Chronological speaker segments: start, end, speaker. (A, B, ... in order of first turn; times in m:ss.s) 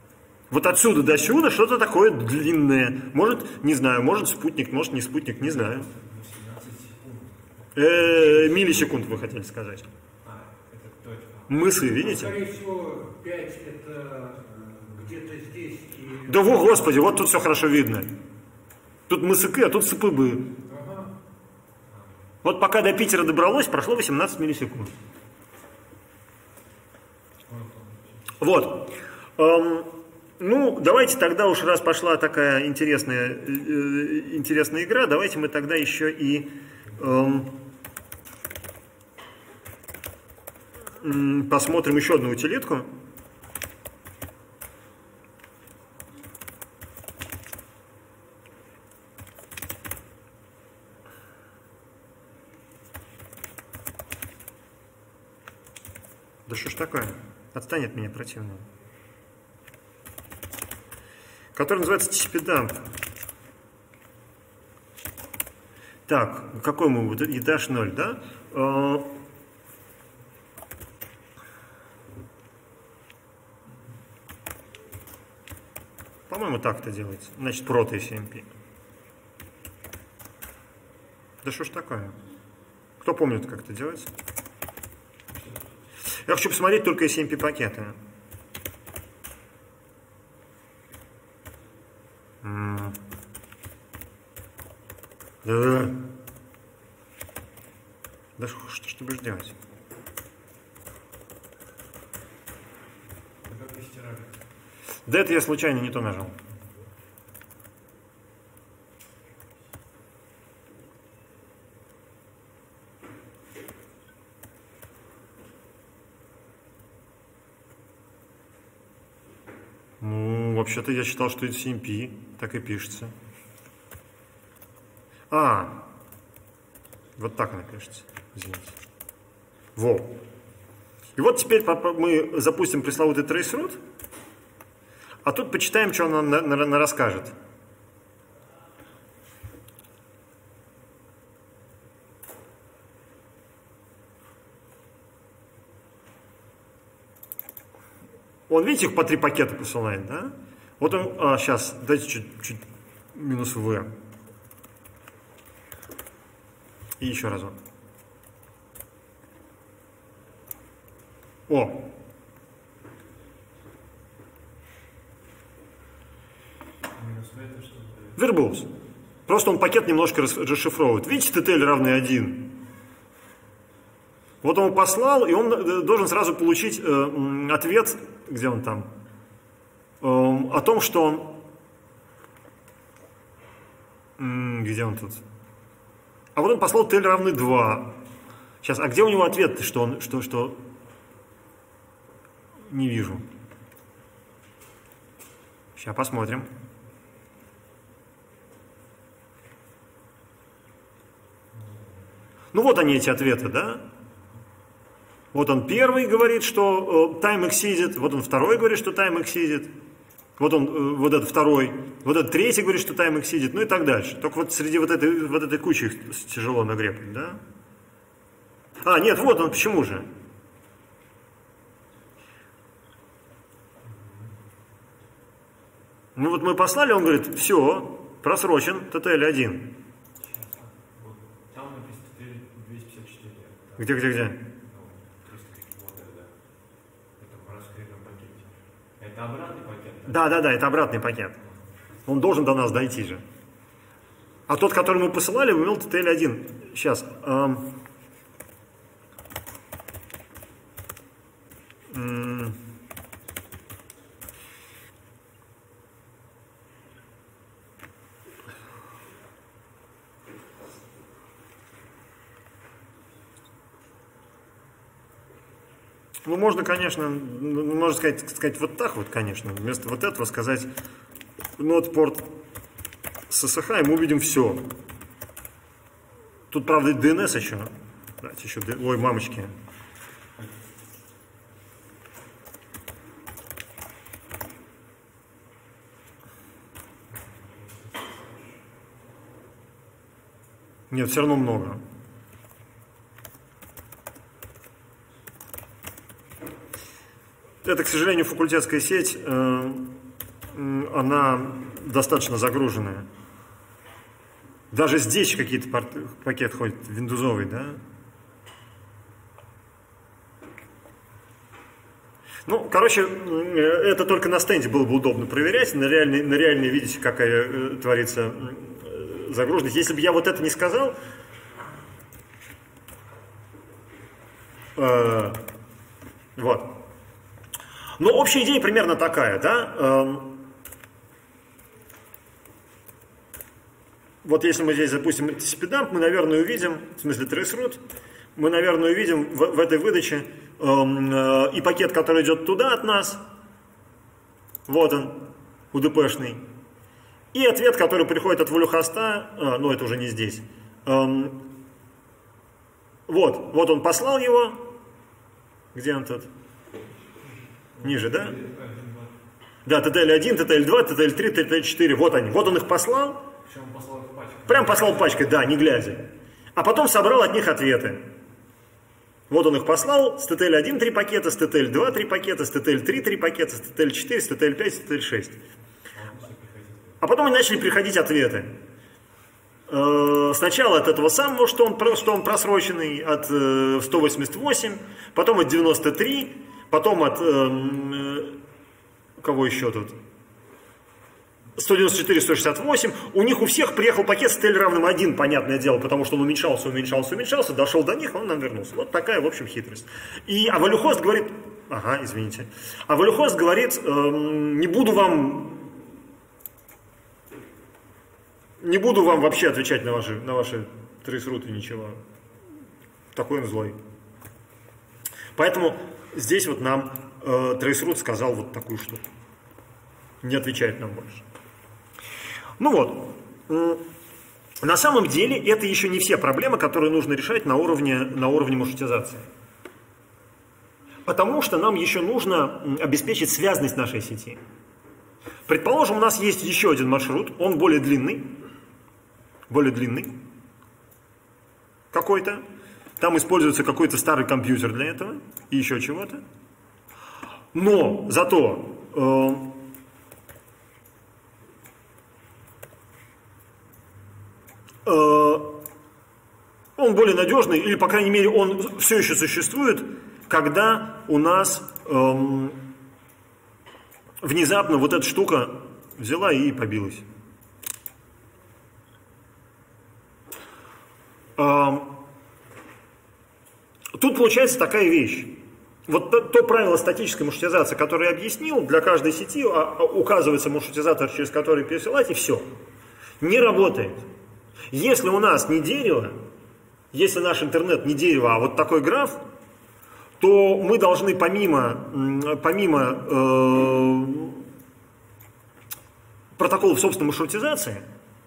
0:00.5-0:05.9 A
0:05.6-0:08.9 B
0:07.8-0:09.9 A
0:10.2-0:11.9 B
0:11.5-0:12.4 A
0:11.9-0:16.8 C
0:16.3-0:18.1 A
0:19.1-0:20.5 A
0:20.7-0:21.2 C
0:22.4-0:24.9 A
0:27.5-0:28.1 B
0:28.4-0:37.5 A
0:41.0-0:42.9 A
0:56.5-0:58.6 A
1:01.6-1:02.8 A
1:06.1-1:09.1 A
1:16.3-1:18.5 A
1:21.4-1:22.2 A
1:23.0-1:24.1 A
1:26.3-1:28.0 A
1:32.4-1:33.0 A
1:35.4-1:36.0 A
1:38.4-1:39.6 A
1:43.4-1:44.4 B
1:45.1-1:46.4 A
2:00.0-2:03.1 A
2:05.3-2:05.8 A
2:07.2-2:08.7 A
2:09.8-2:10.1 A
2:11.2-2:13.8 A
2:15.2-2:17.4 A
2:28.5-2:32.6 A
2:33.1-2:33.9 A
2:37.0-2:37.6 A
2:41.5-2:41.8 A
2:47.0-2:48.2 B
2:48.2-2:48.7 A
2:49.3-2:52.5 A
2:54.4-2:58.9 A
3:00.0-3:01.4 A
3:04.2-3:05.2 A
3:06.4-3:08.0 A
3:08.6-3:10.6 A
3:12.7-3:13.2 A
3:15.8-3:16.5 A
3:22.5-3:23.8 A
3:25.3-3:29.7 A
3:30.4-3:37.4 A
3:38.8-3:40.1 A
3:46.2-3:49.7 A
3:50.2-3:56.3 B
3:53.8-3:54.4 A
3:57.2-4:00.4 B
4:00.1-4:01.4 A
4:02.1-4:03.2 A
4:04.5-4:07.7 A
4:11.9-4:12.6 A
4:26.2-4:30.7 A
4:31.6-4:32.3 A
4:33.3-4:34.6 A
4:36.5-4:39.6 A
4:50.9-4:51.8 A
4:57.6-4:59.9 A
5:00.5-5:03.1 A
5:04.7-5:07.8 A
5:12.5-5:21.0 A
5:24.8-5:25.4 A
5:26.4-5:26.7 A
5:28.0-5:30.4 A
5:34.2-5:37.8 A
5:38.4-5:43.2 A
5:44.7-5:46.4 A
5:47.3-5:51.4 A
5:53.1-5:54.6 A
5:55.8-5:56.3 A
5:57.8-5:59.1 B
5:57.8-5:58.4 A
5:59.7-6:03.2 A
6:03.5-6:05.3 B
6:04.5-6:08.1 A
6:09.3-6:15.4 A
6:16.0-6:17.0 B
6:17.0-6:18.6 A
6:19.7-6:28.4 A
6:29.2-6:30.0 A
6:31.6-6:45.8 A
6:48.6-6:52.0 A
6:53.1-6:53.8 A
6:55.4-6:59.0 A
7:00.2-7:01.2 A
7:02.6-7:03.8 A
7:04.6-7:09.3 A
7:11.1-7:14.4 A
7:15.5-7:18.3 A
7:19.5-7:20.2 A
7:21.9-7:22.4 A
7:23.0-7:26.2 A
7:27.5-7:29.6 A
7:34.8-7:35.6 A
7:36.8-7:42.6 A
7:44.2-7:47.1 A
7:51.4-7:52.0 A
7:54.0-8:02.5 A
8:03.2-8:04.0 A
8:04.7-8:06.2 A
8:06.9-8:09.2 A
8:10.2-8:14.4 A
8:16.4-8:17.8 A